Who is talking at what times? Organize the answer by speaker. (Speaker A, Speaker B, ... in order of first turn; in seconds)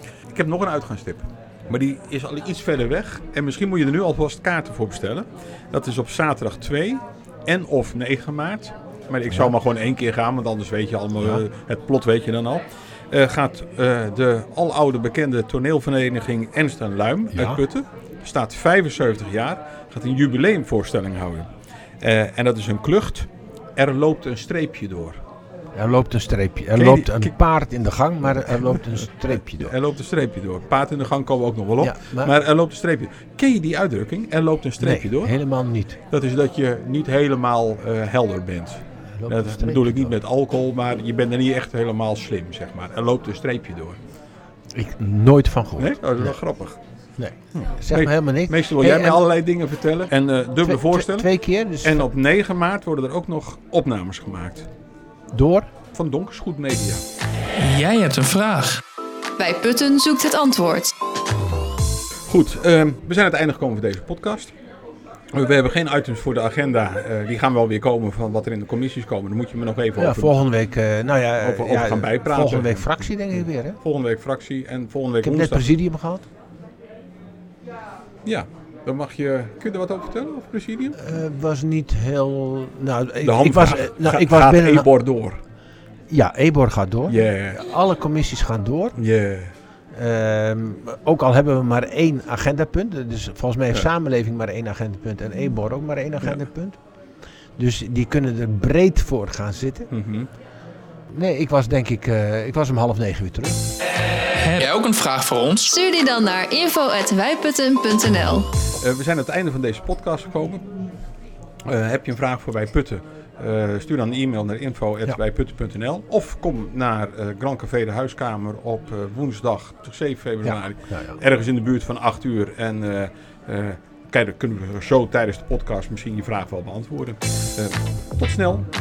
Speaker A: 0.3-25.2, 26.7-27.3, 29.3-35.3, 36.1-44.0, 45.8-46.8, 47.5-51.3, 51.8-54.7, 55.9-57.0, 62.3-64.5, 65.3-70.4, 71.4-73.0, 73.8-75.7, 78.2-81.0, 83.2-85.4, 87.1-87.6, 89.0-89.5, 99.9-100.3, 108.8-110.7, 111.6-128.7
Speaker B: 17.3-17.6, 25.7-29.7, 31.8-32.3, 34.8-36.0, 39.2-40.2, 44.7-46.4, 47.2-49.2, 50.6-52.1, 55.3-55.7, 70.0-73.8, 75.2-76.2, 81.0-84.9, 86.1-89.0, 89.9-96.8, 97.6-99.9, 101.1-103.6, 120.4-121.2
Speaker C: 57.6-58.8, 104.3-105.7
Speaker D: 59.4-60.9, 105.7-108.5